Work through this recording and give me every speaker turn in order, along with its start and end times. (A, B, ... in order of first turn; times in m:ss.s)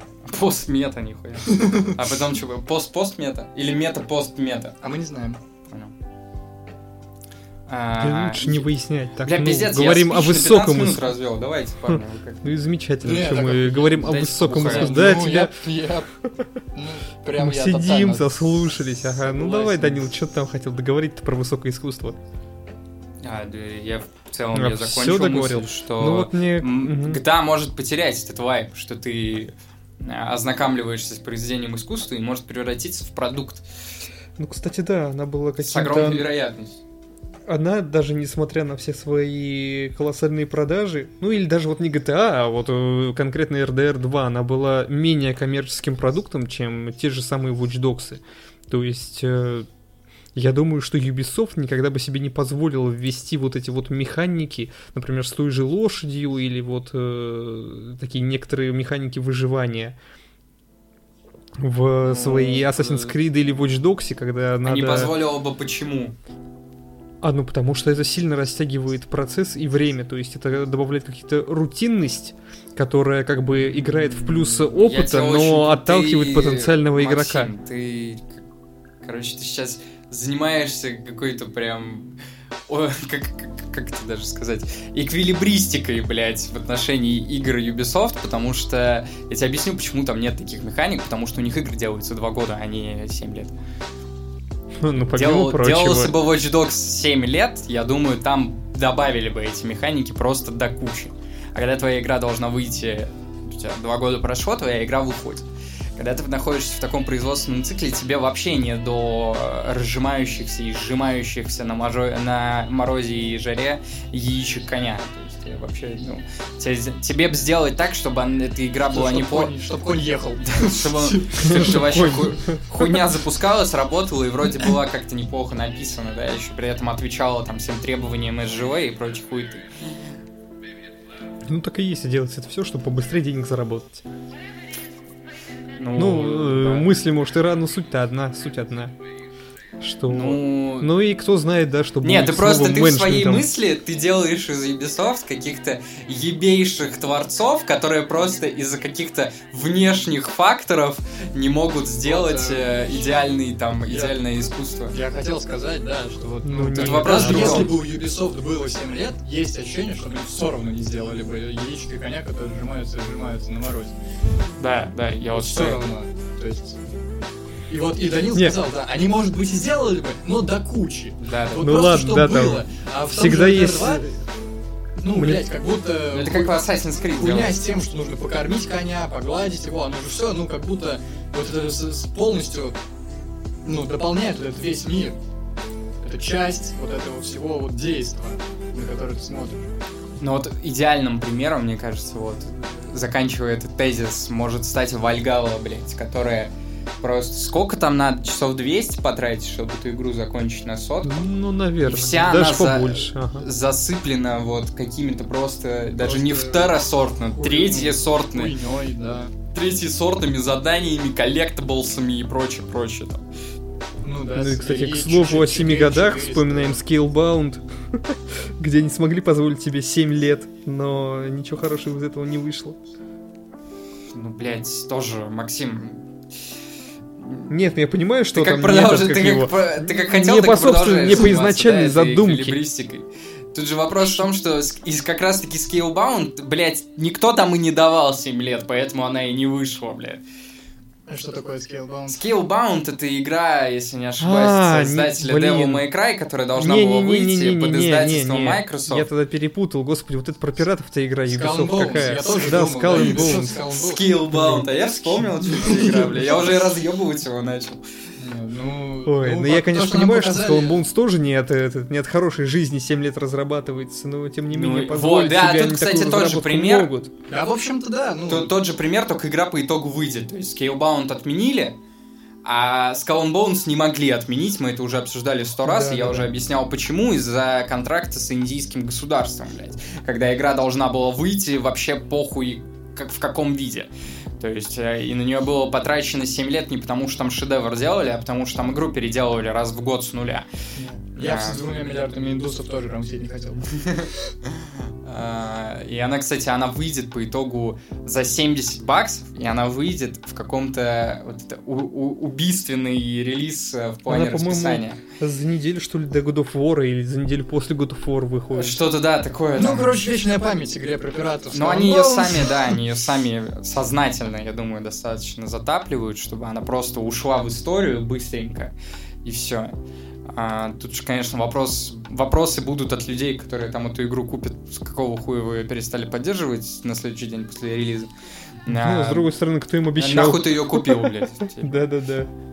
0:00.2-0:04.8 A
0:01.5-0:01.9 B
0:04.8-0:05.4 B
0:07.7-0:12.5 A
0:08.0-0:11.1 C
0:11.9-0:15.6 C
0:13.0-0:16.1 B
0:14.0-0:15.2 A
0:16.7-0:18.7 B
0:17.4-0:22.2 C
0:19.2-0:19.9 B
0:23.2-0:33.6 A
0:24.5-0:27.2 C
0:34.4-0:36.3 C
0:35.6-0:36.8 A
0:37.4-0:49.7 C
0:50.3-1:00.0 C
1:01.6-1:05.1 C
1:02.0-1:03.1 A
1:04.6-1:06.2 A
1:07.2-1:17.5 C
1:14.4-1:18.4 A
1:19.0-1:22.1 A
1:22.7-1:33.5 A
1:34.8-1:36.2 C
1:35.1-1:59.5 A
1:58.9-2:02.0 B
2:00.4-2:10.1 A
2:01.4-2:02.9 C
2:11.4-2:14.0 C
2:15.8-2:16.9 A
2:16.0-2:18.9 C
2:19.8-2:23.5 C
2:20.1-2:20.9 A
2:22.0-2:35.0 A
2:32.0-2:34.2 B
2:34.9-2:43.9 B
2:36.4-2:37.8 C
2:36.7-2:37.8 A
2:44.6-2:45.8 A
2:45.3-2:46.8 B
2:47.7-2:54.0 B
2:51.2-2:51.7 A
2:51.6-2:54.2 C
2:55.0-3:02.8 B
2:55.1-2:55.5 C
2:56.1-2:57.6 A
3:03.6-3:05.2 B
3:06.0-3:09.7 B
3:10.2-3:21.3 A
3:21.0-3:23.4 C
3:21.8-3:28.5 A
3:26.0-3:29.3 B
3:29.5-3:33.2 A
3:34.0-3:36.8 B
3:34.4-3:42.8 C
3:44.1-3:46.1 A
3:47.2-3:47.5 A
3:47.5-3:52.6 C
3:48.3-4:00.2 A
4:01.1-4:02.2 B
4:02.1-4:09.1 A
4:04.2-4:05.8 C
4:06.6-4:13.6 C
4:11.3-4:14.8 B
4:12.9-4:17.8 A
4:14.3-4:14.7 C
4:15.4-4:16.2 B
4:18.2-4:20.8 B
4:19.0-4:27.1 C
4:24.5-4:26.9 A
4:27.3-4:28.5 B
4:28.3-4:31.8 A
4:32.4-4:50.5 A
4:35.6-4:36.3 C
4:50.7-4:54.1 B
4:51.2-4:51.6 A
4:53.8-4:54.1 A
4:55.0-5:05.0 A
5:04.1-5:08.8 C
5:08.5-5:09.9 A
5:09.6-5:12.7 B
5:11.5-5:28.1 A
5:28.6-5:29.3 A
5:28.7-5:32.3 C
5:29.9-5:31.7 A